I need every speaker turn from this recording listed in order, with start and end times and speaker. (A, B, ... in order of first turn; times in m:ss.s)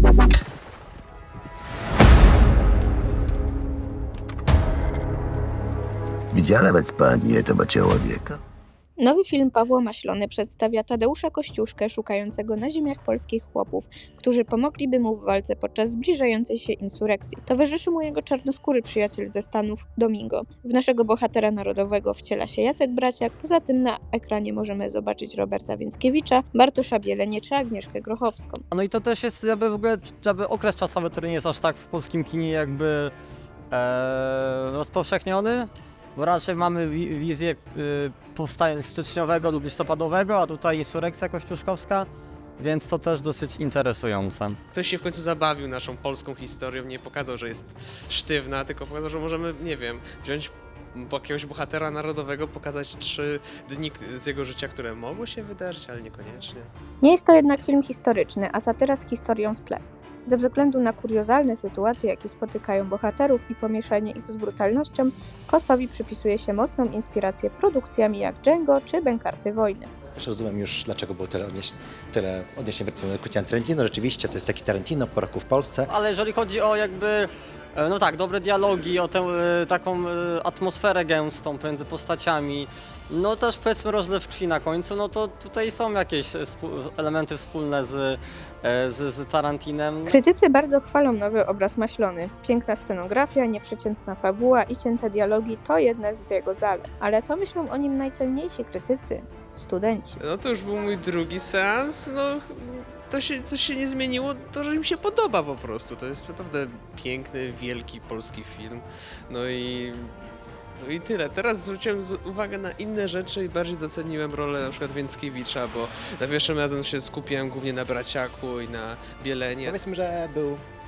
0:06.3-0:08.4 A
0:09.0-0:28.6 B
0:28.7-0:33.1 C
0:33.7-0:44.6 C
0:44.7-0:56.7 D
0:57.0-1:09.9 B
1:10.0-1:15.9 E
1:15.9-1:30.2 C
1:30.0-1:40.2 B
1:40.2-1:59.8 D
1:59.6-2:00.6 E